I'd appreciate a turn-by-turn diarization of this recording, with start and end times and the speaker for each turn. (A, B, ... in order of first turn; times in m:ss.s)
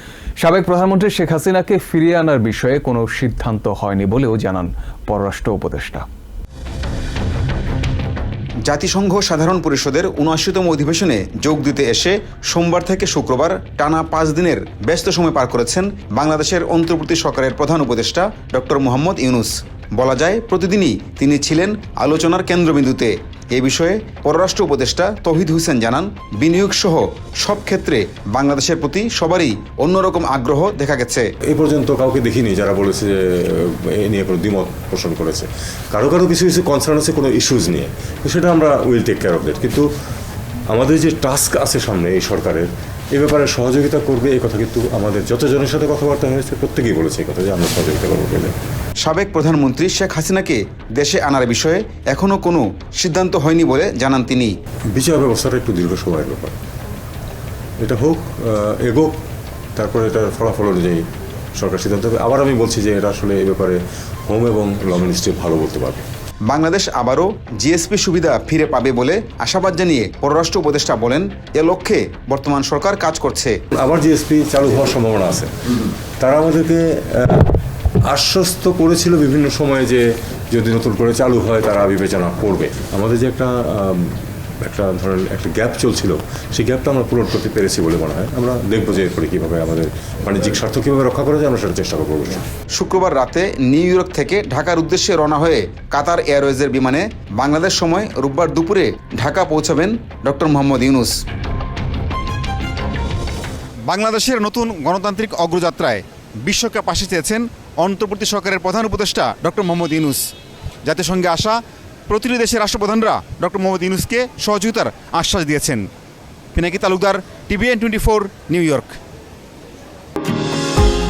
0:00.4-0:06.0 A
0:08.6-0:31.3 B
0:31.5-0:39.9 C
0:40.7-0:48.6 C
0:49.0-0:54.5 B
0:54.9-0:56.6 C
0:57.8-0:59.2 C
0:59.8-1:06.0 C
1:06.4-1:13.6 B
1:13.7-1:17.5 C
1:18.0-1:32.5 C
1:32.7-1:41.1 B
1:43.8-1:50.3 B
1:50.8-1:51.6 B
1:52.1-1:55.9 B
1:56.5-1:59.0 B